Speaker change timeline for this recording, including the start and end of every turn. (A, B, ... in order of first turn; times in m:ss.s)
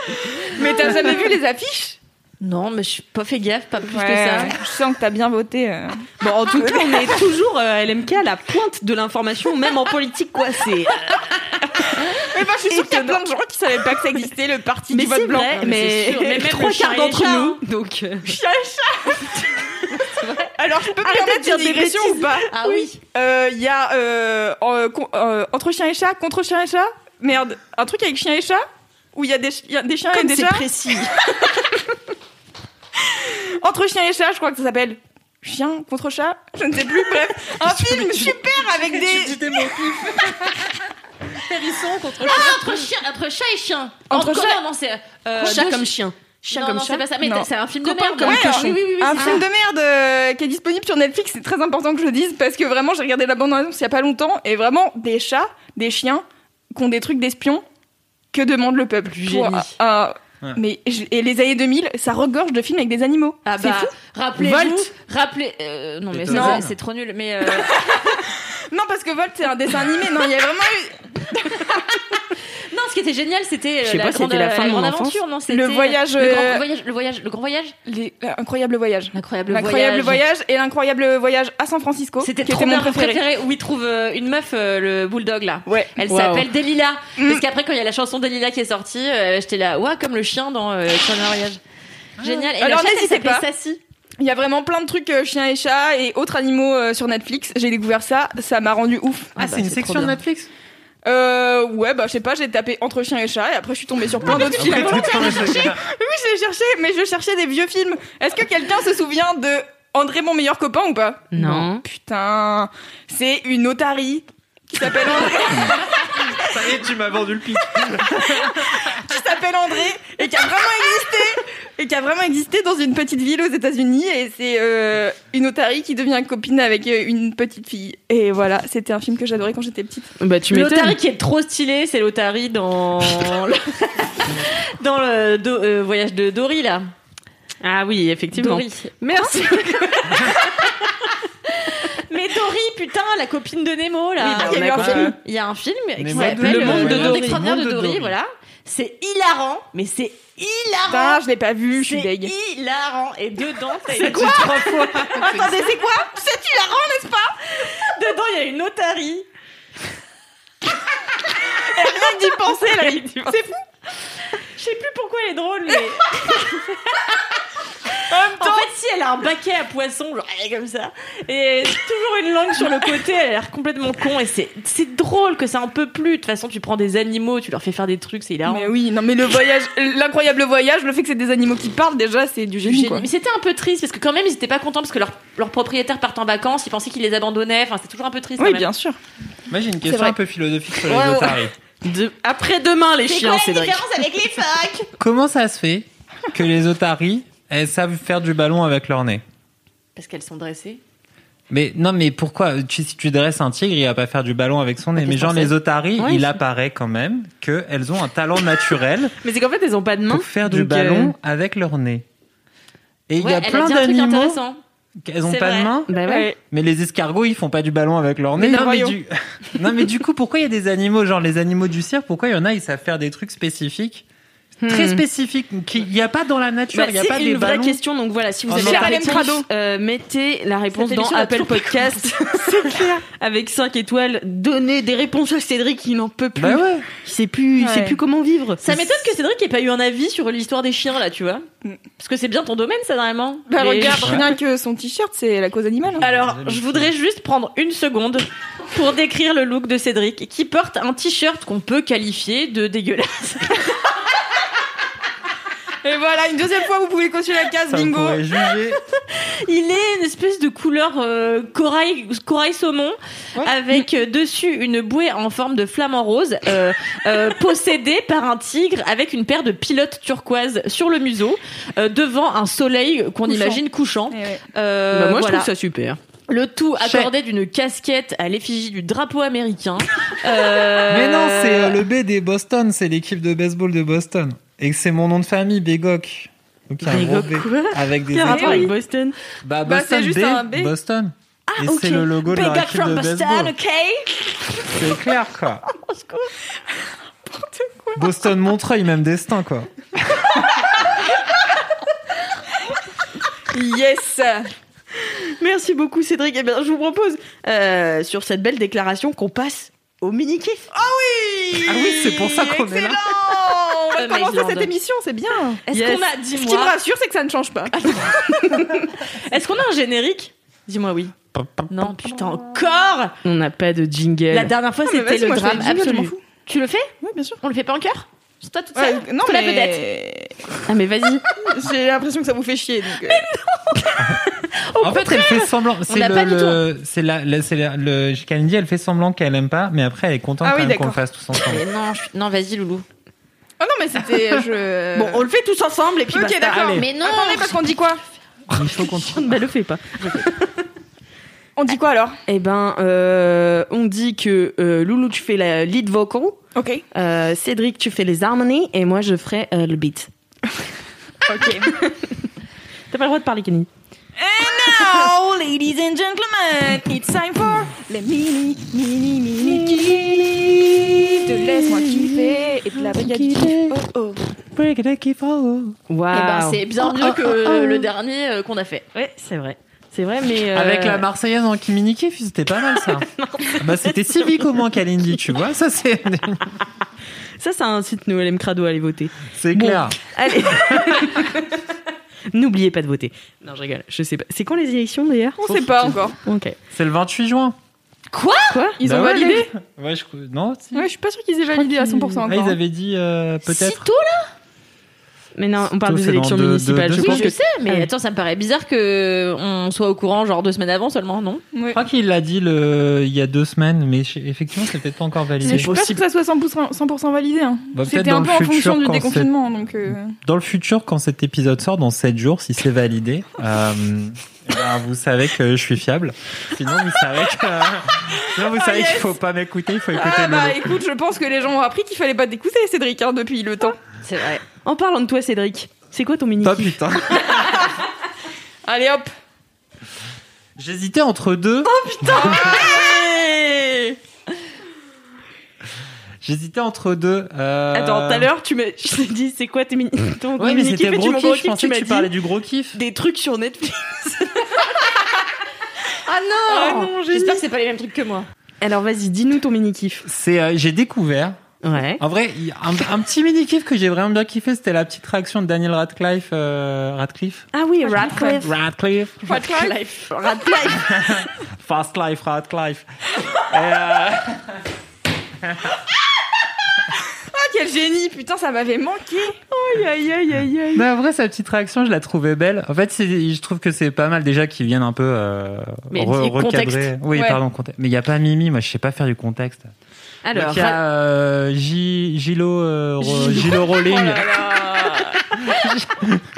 0:00.5-0:02.0 A
0:02.4-0:04.6 B
0:03.9-0:06.0 A
0:06.2-0:13.2 C
0:06.6-0:07.2 A
0:12.2-0:16.3 A
0:14.9-0:18.4 C
0:15.6-0:17.6 B
0:18.2-0:19.8 A
0:20.0-0:20.5 B
0:20.6-0:22.5 A
0:21.0-0:22.8 C
0:22.5-0:23.0 B
0:23.1-0:30.7 A
0:30.1-0:31.2 C
0:33.1-0:40.3 A
0:37.6-0:42.5 D
0:42.2-0:45.9 B
0:44.1-0:44.6 A
0:45.4-0:47.1 C
0:46.5-0:49.4 B
0:47.2-0:47.5 A
0:47.8-0:49.4 C
0:48.2-0:57.6 A
0:58.3-1:03.5 A
0:59.2-0:59.7 C
1:03.5-1:08.0 B
1:03.6-1:04.9 C
1:06.1-1:06.8 D
1:06.3-1:06.6 A
1:07.6-1:11.8 A
1:12.7-1:17.8 B
1:13.8-1:15.2 C
1:15.5-1:16.6 A
1:17.9-1:23.2 A
1:19.1-1:20.2 B
1:22.2-1:31.6 B
1:25.7-1:25.9 A
1:26.1-1:26.5 C
1:27.2-1:27.4 A
1:32.2-1:32.5 D
1:32.2-1:33.8 B
1:32.6-1:33.5 A
1:34.2-1:39.3 A
1:39.4-1:40.5 D
1:39.4-1:40.1 B
1:41.0-1:56.5 A
1:44.2-1:45.8 D
1:51.3-1:51.8 C
1:55.4-1:59.0 D
1:58.0-2:10.1 A
2:10.2-2:11.0 C
2:10.5-2:16.9 B
2:17.6-2:20.4 C
2:18.3-2:19.3 B
2:21.6-2:31.2 B
2:24.2-2:25.2 C
2:24.4-2:25.1 A
2:24.8-2:25.1 D
2:26.0-2:28.2 D
2:26.1-2:27.4 C
2:30.9-2:32.3 A
2:31.8-2:34.5 B
2:33.9-2:34.4 C
2:34.0-2:35.6 D
2:35.1-2:37.4 A
2:35.2-2:35.6 B
2:37.6-2:39.3 B
2:41.6-2:43.5 A
2:42.5-2:43.3 C
2:44.4-2:46.8 B
2:47.9-2:58.7 B
2:48.1-2:48.7 A
2:58.5-3:03.1 A
3:02.7-3:08.7 B
3:08.4-3:09.0 A
3:09.5-3:11.5 D
3:09.8-3:10.2 A
3:10.9-3:13.8 C
3:13.1-3:14.9 B
3:15.0-3:19.2 D
3:20.0-3:20.8 B
3:21.5-3:29.2 D
3:25.0-3:25.5 B
3:26.0-3:26.4 C
3:29.2-3:31.1 C
3:30.1-3:32.1 D
3:33.1-3:34.4 D
3:33.2-3:34.6 B
3:35.0-3:35.9 D
3:35.2-3:35.7 B
3:35.9-3:36.3 C
3:36.0-3:36.4 A
3:36.5-3:44.0 D
3:38.4-3:39.0 A
3:44.6-3:47.8 D
3:44.6-3:45.0 C
3:46.7-3:59.0 C
3:48.5-3:49.0 D
3:48.5-3:49.5 A
3:50.7-3:52.1 B
3:56.4-3:56.9 D
3:57.6-3:58.0 A
3:58.6-4:01.4 B
4:02.0-4:04.2 B
4:03.5-4:06.0 A
4:06.0-4:06.9 D
4:06.0-4:13.6 B
4:15.8-4:18.2 A
4:17.7-4:18.8 D
4:19.1-4:35.5 B
4:33.3-4:34.4 A
4:34.9-4:36.0 C
4:36.3-4:41.8 B
4:36.8-4:37.1 D
4:40.8-4:48.7 D
4:46.8-4:49.2 C
4:48.3-4:48.7 A
4:49.4-4:53.5 D
4:49.7-4:50.7 A
4:51.5-4:52.1 C
4:52.2-4:54.3 B
4:54.7-4:55.7 D
4:57.3-4:58.0 A
4:58.0-5:00.3 D
5:03.5-5:04.5 A
5:05.0-5:10.7 C
5:10.7-5:15.7 A
5:11.6-5:13.2 D
5:14.0-5:14.7 B
5:15.7-5:16.8 B
5:15.7-5:16.1 C
5:16.3-5:18.8 A
5:17.7-5:21.1 B
5:21.4-5:21.7 D
5:21.7-5:23.2 B
5:23.2-5:24.6 C
5:24.3-5:26.9 B
5:24.9-5:26.2 A
5:27.0-5:27.4 A
5:27.4-5:29.8 B
5:28.8-5:30.4 A
5:30.7-5:31.3 C
5:31.5-5:33.2 A
5:33.1-5:36.6 B
5:34.8-5:41.6 D
5:40.4-5:41.0 A
5:41.4-5:42.8 B
5:43.6-5:45.3 A
5:45.0-5:46.8 C
5:46.1-5:48.0 A
5:46.7-5:48.0 B
5:48.5-5:49.4 D
5:48.5-5:50.5 C
5:51.6-5:52.2 A
5:52.3-5:56.4 C
5:56.6-5:56.8 A
5:56.9-6:00.1 C
6:01.3-6:01.7 A
6:01.7-6:02.1 C
6:02.9-6:03.7 C
6:04.2-6:10.5 A
6:09.4-6:11.2 C
6:11.2-6:14.3 A
6:12.0-6:12.3 C
6:12.9-6:13.8 C
6:14.5-6:15.8 D
6:15.9-6:17.9 C
6:16.1-6:18.8 B
6:19.0-6:21.0 C
6:20.5-6:23.1 D
6:22.8-6:24.5 C
6:23.6-6:26.6 D
6:27.4-6:31.4 C
6:29.3-6:31.2 D
6:32.3-6:35.4 C
6:35.4-6:36.2 A
6:35.5-6:36.0 D
6:36.2-6:36.6 C
6:36.7-6:37.6 D
6:38.1-6:38.6 B
6:38.5-6:38.8 C
6:38.8-6:39.5 A
6:38.8-6:40.9 D
6:40.7-6:42.6 A
6:41.6-6:42.2 C
6:42.3-6:43.9 D
6:43.5-6:44.3 B
6:45.4-6:47.9 C
6:45.8-6:47.3 D
6:47.0-6:51.4 B
6:51.5-6:51.8 A
6:51.7-6:55.7 D
6:55.4-7:00.2 A
6:57.7-6:59.3 D
7:00.2-7:10.7 D
7:08.3-7:09.2 A
7:10.0-7:13.8 A
7:14.0-7:14.4 B
7:14.6-7:16.8 C
7:16.4-7:17.4 D
7:17.3-7:17.7 A
7:18.6-7:19.1 A
7:20.6-7:22.5 D
7:21.8-7:24.0 C
7:22.1-7:23.1 A
7:26.2-7:28.3 D
7:27.7-7:32.1 C
7:30.4-7:32.8 D
7:32.8-7:34.7 C
7:36.1-7:38.3 B
7:36.5-7:37.4 C
7:38.6-7:40.0 C
7:40.1-7:41.4 D
7:41.6-7:42.0 C
7:42.0-7:47.5 D
7:47.5-7:48.5 C
7:47.9-7:48.4 A
7:48.4-7:49.2 D
7:49.3-7:49.8 A
7:49.3-7:50.1 B
7:50.1-7:50.9 C
7:50.8-7:54.7 D
7:55.4-7:55.7 D
7:57.3-7:59.4 A
7:59.5-8:00.9 C
8:00.7-8:09.7 D
8:05.9-8:06.9 B
8:07.1-8:07.4 A
8:10.2-8:10.8 C
8:10.4-8:16.2 D
8:13.0-8:13.6 C
8:13.7-8:15.3 A